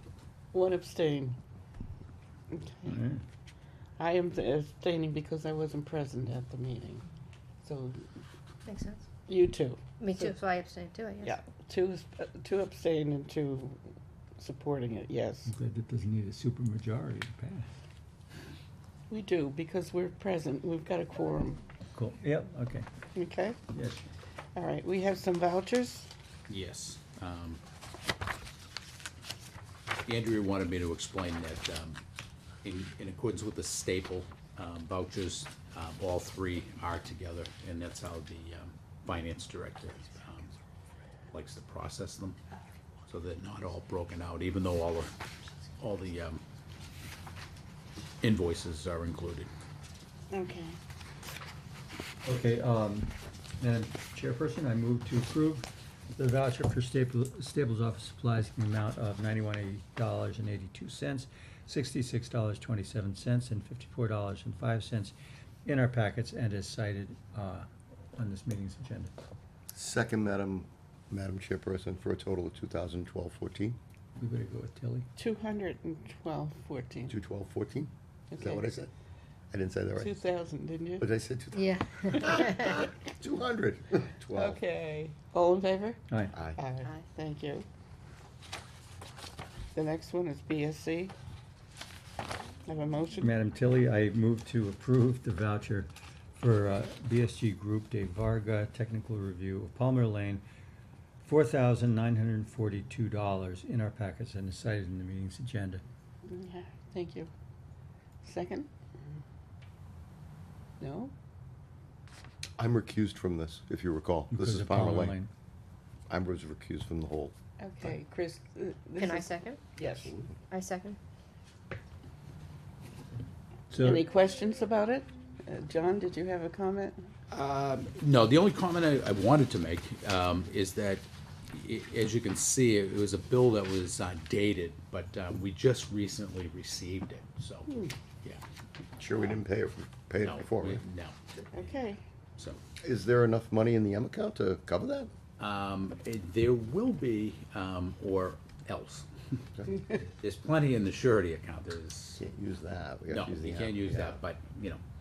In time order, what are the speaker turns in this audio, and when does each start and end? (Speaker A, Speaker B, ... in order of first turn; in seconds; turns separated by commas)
Speaker A: 0.5-1.4, Speaker A: 2.5-3.0, Speaker B: 2.8-3.2, Speaker A: 4.0-7.0, Speaker A: 7.6-8.0, Speaker C: 8.6-9.0, Speaker A: 9.3-10.3, Speaker C: 10.0-11.3, Speaker A: 11.2-13.8, Speaker A: 14.4-15.5, Speaker B: 15.5-17.7, Speaker A: 19.1-21.6, Speaker B: 21.9-22.9, Speaker A: 23.1-23.6, Speaker B: 23.7-24.0, Speaker A: 24.5-26.1, Speaker D: 26.5-27.6, Speaker D: 30.1-32.0, Speaker D: 32.6-40.5, Speaker D: 41.3-42.4, Speaker D: 43.1-45.1, Speaker D: 45.8-46.4, Speaker D: 48.2-49.5, Speaker A: 50.3-50.8, Speaker B: 52.2-65.1, Speaker B: 65.7-69.1, Speaker E: 69.7-73.8, Speaker B: 74.2-75.0, Speaker A: 75.2-77.1, Speaker E: 77.1-78.9, Speaker A: 78.3-78.7, Speaker E: 79.5-80.1, Speaker A: 80.0-81.0, Speaker E: 81.0-84.6, Speaker C: 81.5-82.8, Speaker A: 84.3-86.0, Speaker E: 86.3-86.6, Speaker A: 86.5-87.7, Speaker A: 89.7-91.1, Speaker A: 92.7-93.3, Speaker B: 93.2-100.4, Speaker B: 101.2-105.8, Speaker A: 106.2-107.3, Speaker A: 108.2-108.7, Speaker A: 110.8-111.1, Speaker E: 112.6-115.2, Speaker B: 114.3-115.3, Speaker E: 116.1-117.3, Speaker A: 117.6-120.1, Speaker C: 119.0-119.6, Speaker C: 120.5-121.0, Speaker B: 123.7-124.0, Speaker A: 123.8-127.0, Speaker D: 127.3-137.7, Speaker E: 139.0-140.8, Speaker D: 140.2-141.2, Speaker A: 141.5-142.0, Speaker E: 142.8-145.1, Speaker D: 145.4-149.1, Speaker D: 150.2-152.2, Speaker E: 152.2-154.2, Speaker D: 153.1-154.8